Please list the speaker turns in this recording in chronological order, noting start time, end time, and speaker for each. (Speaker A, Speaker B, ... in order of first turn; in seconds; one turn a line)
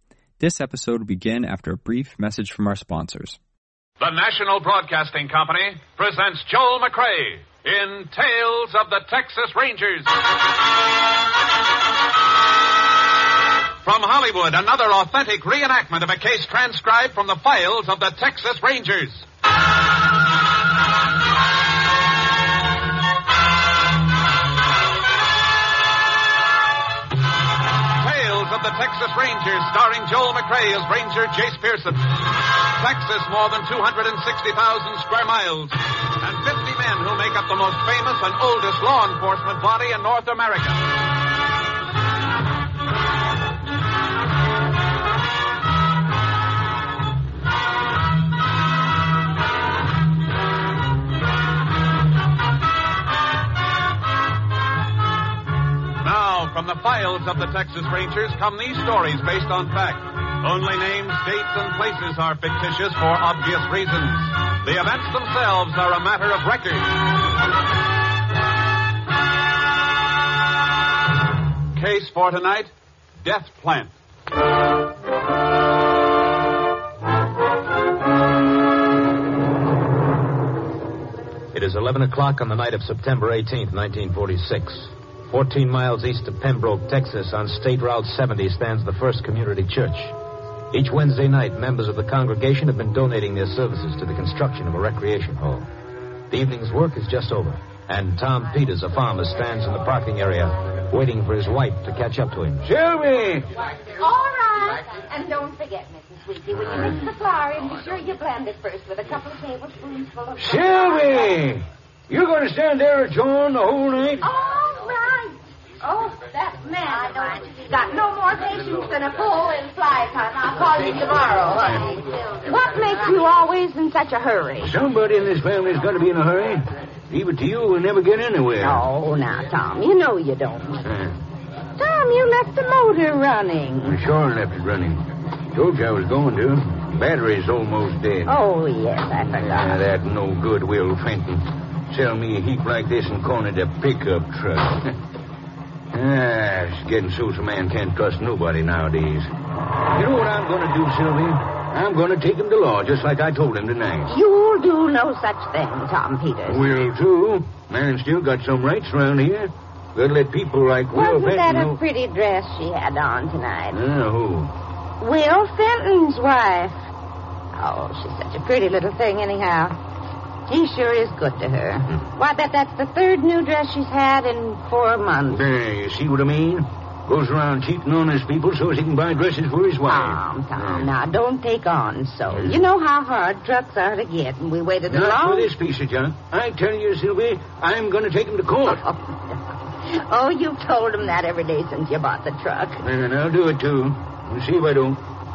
Speaker A: 0.4-3.4
Speaker B: 4.0-10.1
Speaker B: 13.8-19.2
Speaker B: 28.0-40.9
Speaker B: 56.0-67.0
Speaker B: 71.7-73.9
Speaker C: 81.5-90.1
Speaker C: 90.7-95.7
Speaker C: 96.3-102.7
Speaker D: 102.6-103.5
Speaker E: 104.0-111.5
Speaker D: 110.4-114.3
Speaker E: 114.2-124.8
Speaker D: 124.6-128.9
Speaker E: 128.6-130.8
Speaker D: 130.8-131.2
Speaker E: 131.8-134.0
Speaker D: 133.8-138.3
Speaker E: 138.3-139.8
Speaker D: 139.3-144.9
Speaker D: 145.9-149.3
Speaker D: 149.9-154.1
Speaker E: 154.1-156.7
Speaker D: 156.5-161.8
Speaker E: 160.9-163.8
Speaker D: 163.7-164.5
Speaker E: 165.0-166.8
Speaker E: 167.5-169.8
Speaker E: 170.5-175.4
Speaker D: 175.3-180.9
Speaker E: 179.9-185.5
Speaker D: 182.3-182.6
Speaker D: 184.9-188.8
Speaker E: 188.7-192.8
Speaker D: 192.8-195.0